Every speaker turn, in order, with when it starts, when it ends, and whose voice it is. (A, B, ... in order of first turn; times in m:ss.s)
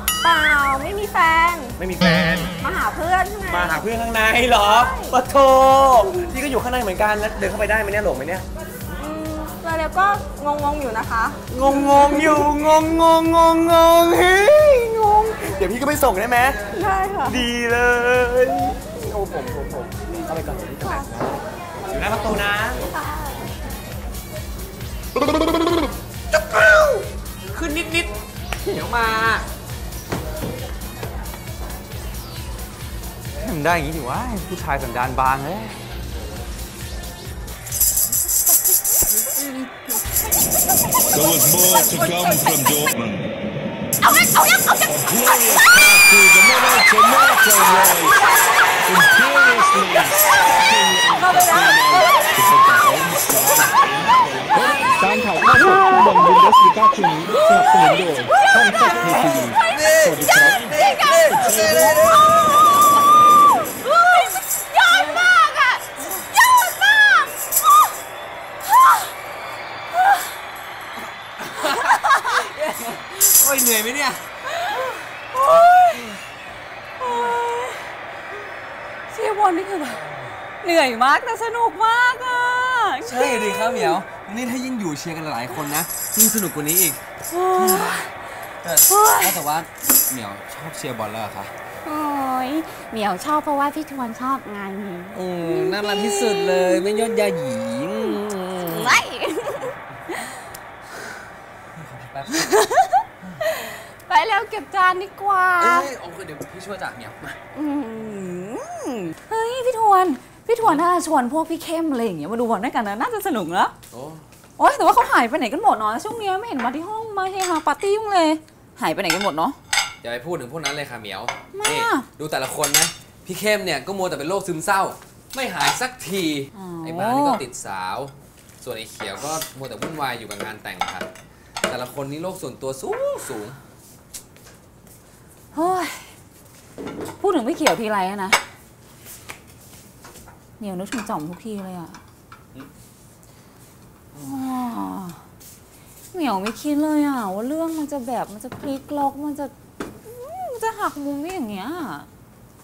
0:00.2-0:01.8 A
0:01.8-0:02.5 B
0:02.6-0:03.8 A
0:03.5-0:08.5 B
0:04.6-0:05.2 A
0:08.9-0:11.4 A
0:11.5-0:16.6 B
0:12.1-0:12.4 A
0:16.7-0:17.4 A
0:17.3-0:18.8 B
0:20.3-0:21.0 B
0:20.8-0:21.1 A
0:21.9-0:22.8 B
0:26.3-0:28.1 B
0:28.7-0:29.4 B
0:33.4-0:35.8 C
0:41.1-0:42.9 D
0:44.9-0:48.1 D
0:48.9-1:01.8 D
0:51.2-0:52.0 A
0:57.5-0:58.5 E
0:59.4-1:02.0 E
1:03.8-1:05.8 E
1:06.4-1:07.9 E
1:12.4-1:14.2 F
1:14.7-1:16.1 E
1:17.0-1:17.9 E
1:19.1-1:20.0 E
1:20.6-1:24.0 E
1:23.0-1:27.0 F
1:27.3-1:28.1 E
1:27.6-1:28.0 F
1:28.6-1:31.5 F
1:28.9-1:29.4 E
1:31.8-1:37.2 E
1:35.1-1:39.1 F
1:38.1-1:39.7 E
1:41.8-1:42.6 F
1:42.3-1:45.9 E
1:45.6-1:47.4 F
1:47.6-1:53.7 E
1:50.6-1:50.9 F
1:53.9-1:54.2 F
1:54.6-1:59.6 E
2:00.0-2:11.1 F
2:01.6-2:02.1 E
2:06.5-2:07.4 E
2:11.7-2:13.6 F
2:15.5-2:16.1 E
2:17.2-2:18.4 E
2:20.6-2:22.0 E
2:24.2-2:25.2 E
2:26.1-2:29.5 E
2:30.1-2:32.1 E